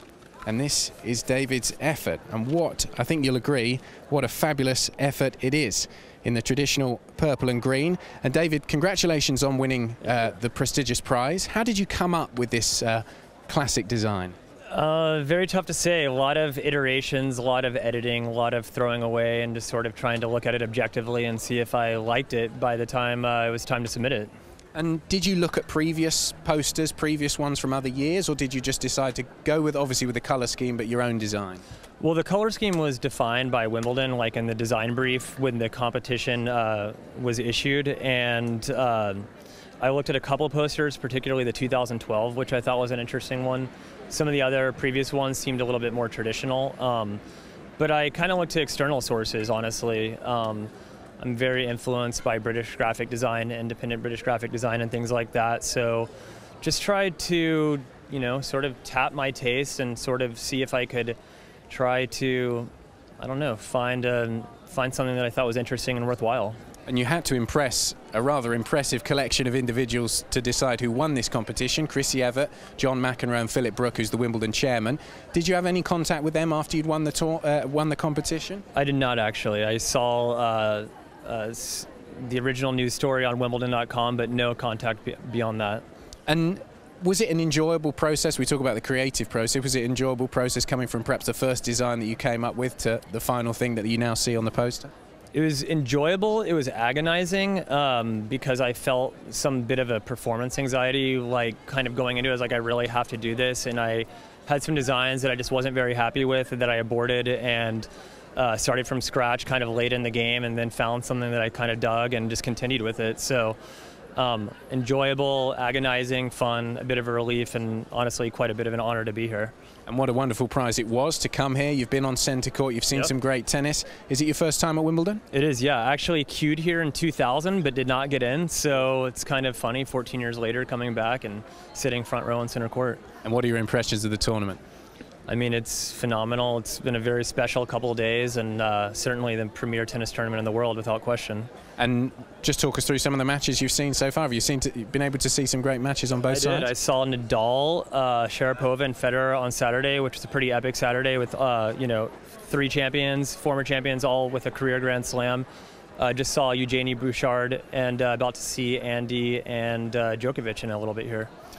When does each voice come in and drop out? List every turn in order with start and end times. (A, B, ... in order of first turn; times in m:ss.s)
0:00.5-0:14.4 A
0:14.7-0:24.3 B
0:24.7-0:31.6 A
0:32.0-0:39.3 B
0:39.8-0:47.2 B
0:47.8-0:56.1 B
0:56.6-1:01.2 B
1:01.7-1:06.6 B
1:06.9-1:18.6 A
1:18.8-1:25.8 B
1:26.3-1:34.9 A
1:35.3-1:53.6 B
1:54.2-1:59.5 B
1:59.9-2:05.2 A
2:05.3-2:13.0 B
2:13.2-2:14.6 A
2:15.3-2:21.5 B
2:21.8-2:26.7 A
2:26.3-2:35.5 B
2:36.0-2:41.3 B